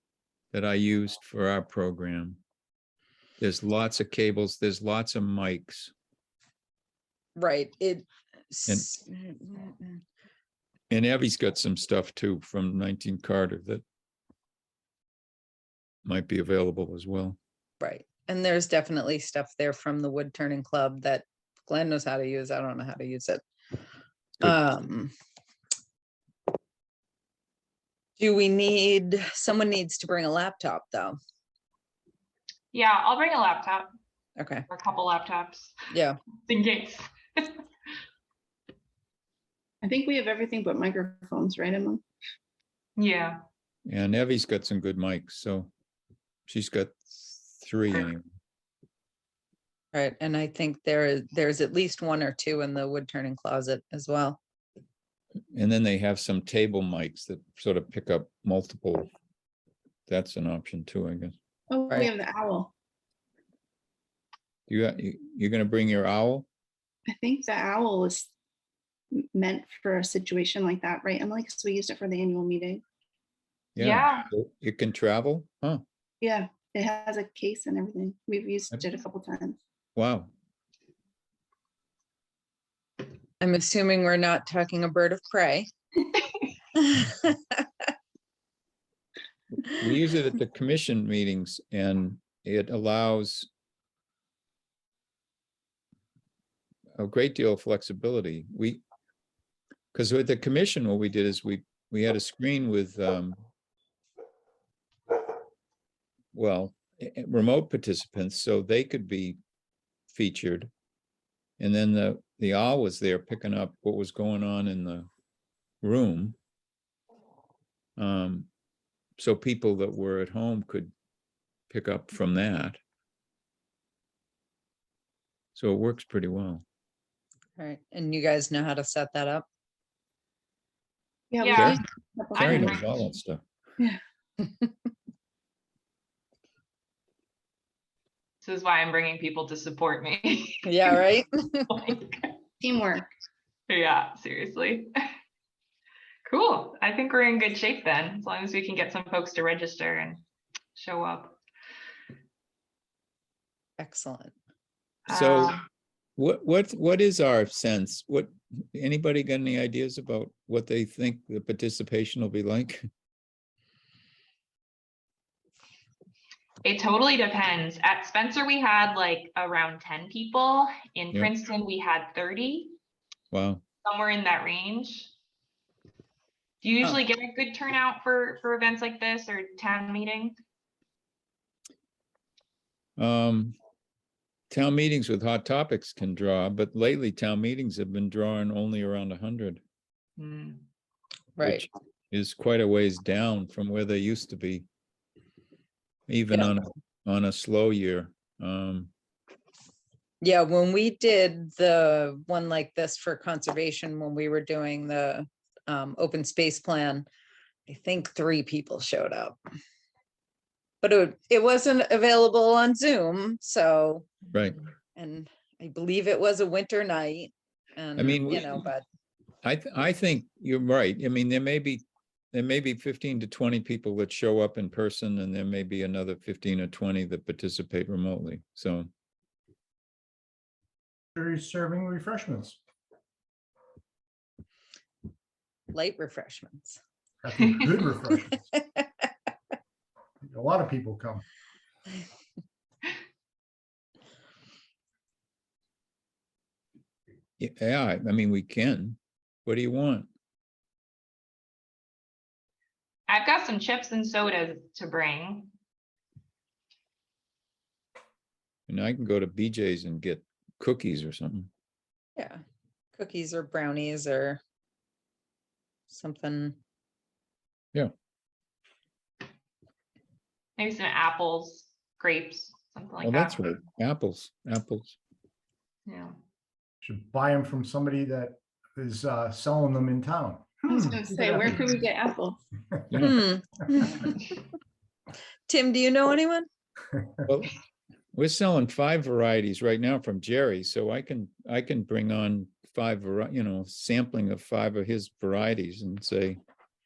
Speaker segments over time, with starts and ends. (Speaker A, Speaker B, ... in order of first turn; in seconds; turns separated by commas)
Speaker A: 0.5-2.4, Speaker A: 3.4-5.9, Speaker B: 7.3-10.0, Speaker A: 10.9-13.8, Speaker A: 16.0-17.4, Speaker B: 17.8-23.4, Speaker B: 24.4-25.1, Speaker B: 28.2-31.2, Speaker C: 32.7-33.9, Speaker B: 34.4-34.7, Speaker C: 34.7-35.8, Speaker B: 35.9-36.2, Speaker C: 36.5-37.6, Speaker D: 39.8-42.0, Speaker C: 43.0-43.4, Speaker A: 43.9-45.7, Speaker A: 46.5-48.2, Speaker B: 49.9-54.4, Speaker A: 55.5-59.1, Speaker A: 60.1-61.3, Speaker D: 61.7-62.7, Speaker A: 64.7-66.5, Speaker D: 67.1-68.3, Speaker D: 69.1-72.8, Speaker A: 73.8-75.8, Speaker C: 73.8-74.3, Speaker D: 76.2-79.6, Speaker A: 80.0-80.3, Speaker B: 83.4-85.7, Speaker B: 86.7-87.4, Speaker A: 89.5-93.5, Speaker A: 97.0-98.8, Speaker A: 99.9-103.4, Speaker A: 106.3-109.4, Speaker A: 110.1-110.7, Speaker A: 111.6-115.1, Speaker A: 115.8-116.4, Speaker A: 118.0-118.5, Speaker A: 119.2-120.9, Speaker A: 121.7-122.8, Speaker A: 125.5-126.6, Speaker B: 127.6-129.4, Speaker D: 131.3-132.8, Speaker C: 131.4-131.8, Speaker A: 131.6-131.8, Speaker A: 132.3-133.4, Speaker C: 132.4-132.8, Speaker C: 138.4-141.0, Speaker B: 140.6-141.7, Speaker C: 141.7-142.3, Speaker D: 142.6-143.1, Speaker C: 143.7-144.9, Speaker C: 146.2-150.2, Speaker C: 150.8-151.4, Speaker B: 153.8-154.3, Speaker C: 155.1-155.6, Speaker A: 155.1-155.6, Speaker A: 156.2-162.8, Speaker C: 166.6-172.8, Speaker A: 173.3-173.6, Speaker C: 173.8-175.1, Speaker C: 176.6-180.4, Speaker A: 183.0-183.6, Speaker A: 184.5-189.6, Speaker C: 190.2-190.6, Speaker B: 191.4-191.7, Speaker A: 191.4-194.7, Speaker A: 196.1-198.9, Speaker B: 200.2-207.1, Speaker B: 207.7-209.4, Speaker B: 210.8-214.1, Speaker B: 214.9-218.8, Speaker A: 218.0-218.7, Speaker A: 219.4-228.9, Speaker E: 231.2-232.6, Speaker B: 235.7-236.8, Speaker E: 237.2-238.5, Speaker E: 240.2-241.2, Speaker A: 247.4-250.1, Speaker C: 253.1-255.5, Speaker A: 258.7-261.5, Speaker B: 262.2-262.4, Speaker B: 262.9-264.4, Speaker B: 265.9-266.6, Speaker C: 270.6-273.4, Speaker A: 273.0-275.0, Speaker C: 275.9-276.1, Speaker E: 276.8-281.8, Speaker D: 280.7-282.4, Speaker E: 282.8-283.1, Speaker A: 282.9-283.2, Speaker B: 283.0-284.1, Speaker B: 285.5-286.5, Speaker A: 287.2-287.5, Speaker A: 288.1-296.4